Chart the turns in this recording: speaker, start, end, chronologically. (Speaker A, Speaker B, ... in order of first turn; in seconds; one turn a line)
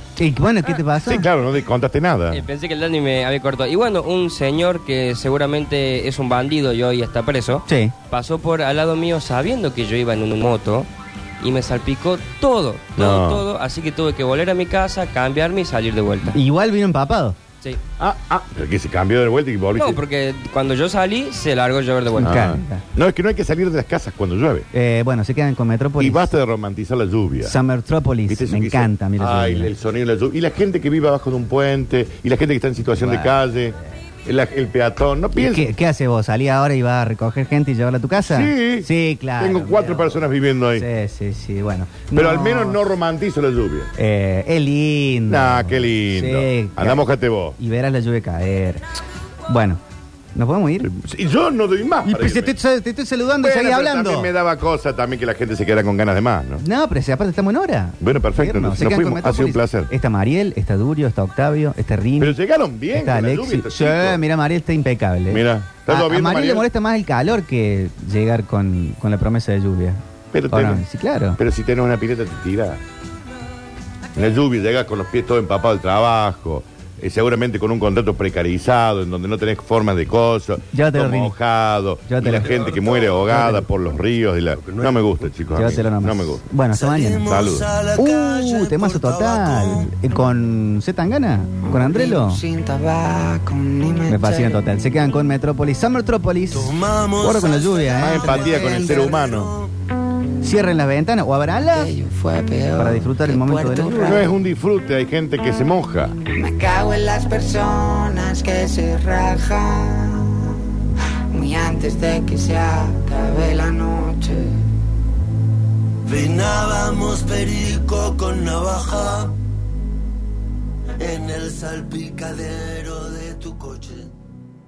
Speaker A: 0.2-1.2
Speaker B: 1.0-2.4
Speaker C: 2.3-10.9
Speaker A: 7.7-7.9
Speaker C: 11.4-16.4
Speaker B: 13.0-13.4
Speaker A: 16.3-17.4
Speaker B: 18.0-20.0
Speaker C: 19.8-22.4
Speaker A: 22.1-22.8
Speaker B: 22.2-24.7
Speaker A: 24.7-26.3
Speaker B: 26.0-27.5
Speaker A: 27.4-29.7
Speaker B: 28.3-35.7
Speaker A: 33.0-33.9
Speaker A: 35.3-42.8
Speaker B: 38.3-40.9
Speaker B: 42.1-43.9
Speaker A: 44.0-47.0
Speaker B: 45.3-47.6
Speaker A: 47.6-48.8
Speaker A: 49.5-49.8
Speaker A: 50.3-50.9
Speaker B: 50.8-52.5
Speaker A: 52.0-54.3
Speaker B: 53.4-56.6
Speaker A: 56.6-62.4
Speaker B: 58.0-59.9
Speaker B: 62.2-64.2
Speaker A: 62.9-71.4
Speaker B: 65.3-66.7
Speaker B: 70.3-70.8
Speaker B: 71.4-72.8
Speaker B: 74.1-86.4
Speaker A: 80.7-81.3
Speaker A: 82.1-82.8
Speaker A: 83.3-83.7
Speaker A: 85.5-87.3
Speaker D: 86.7-89.9
Speaker B: 87.3-87.7
Speaker A: 88.0-92.4
Speaker E: 91.6-94.6
Speaker A: 94.1-99.1
Speaker D: 96.5-99.7
Speaker B: 98.0-99.5
Speaker A: 100.4-101.9
Speaker E: 101.7-104.3
Speaker A: 102.8-104.3
Speaker B: 104.0-106.1
Speaker E: 106.3-110.3
Speaker E: 111.3-114.6
Speaker D: 116.0-119.3
Speaker D: 121.0-124.1